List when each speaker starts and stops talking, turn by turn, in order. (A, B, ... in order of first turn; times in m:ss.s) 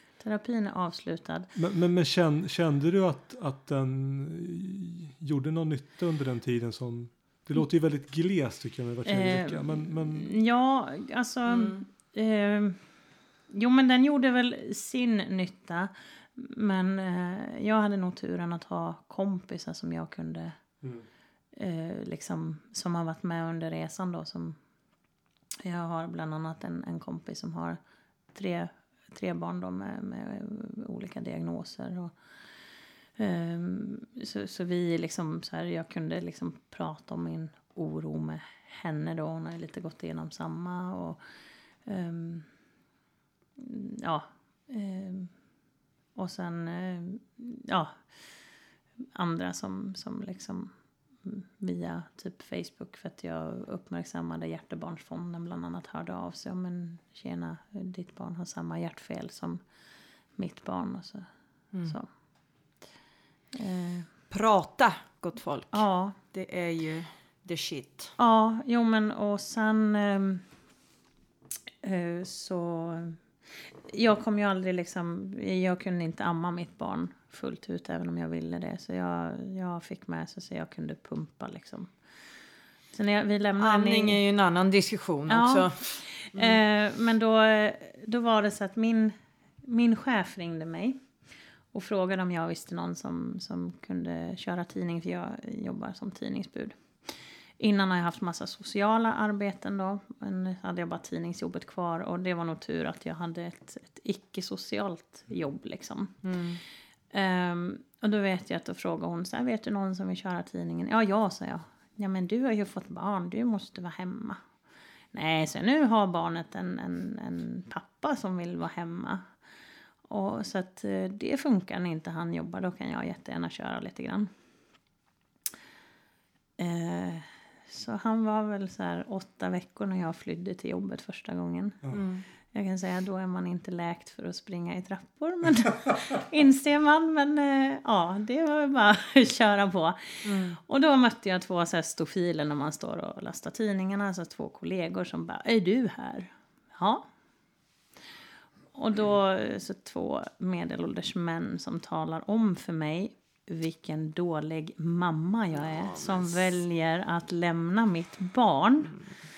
0:00.2-0:01.5 A
0:01.6-0:10.3 B
0:09.1-0:12.8 A
0:11.5-0:11.8 C
0:13.5-0:20.6 A
0:21.5-0:24.6 A
0:25.6-0:27.8 A
0:28.3-0:32.1 A
0:33.2-0:41.2 A
0:41.8-0:42.5 A
0:43.6-0:45.3 A
0:46.2-0:48.0 A
0:49.2-0:50.7 A
0:51.2-0:59.6 A
1:00.4-1:01.2 A
1:03.5-1:04.1 A
1:04.3-1:08.1 C
1:05.7-1:06.2 A
1:08.2-1:10.4 A
1:11.8-1:13.2 A
1:13.9-1:21.9 A
1:22.9-1:24.2 A
1:23.6-1:26.6 C
1:25.3-1:31.0 A
1:31.7-1:36.8 A
1:37.6-1:46.2 A
1:46.2-1:46.6 C
1:47.1-1:54.4 A
1:55.1-1:59.2 A
2:00.1-2:04.3 A
2:06.6-2:11.8 A
2:11.9-2:12.2 C
2:12.5-2:27.0 A
2:20.2-2:20.6 C
2:28.7-2:39.0 A
2:35.6-2:36.6 C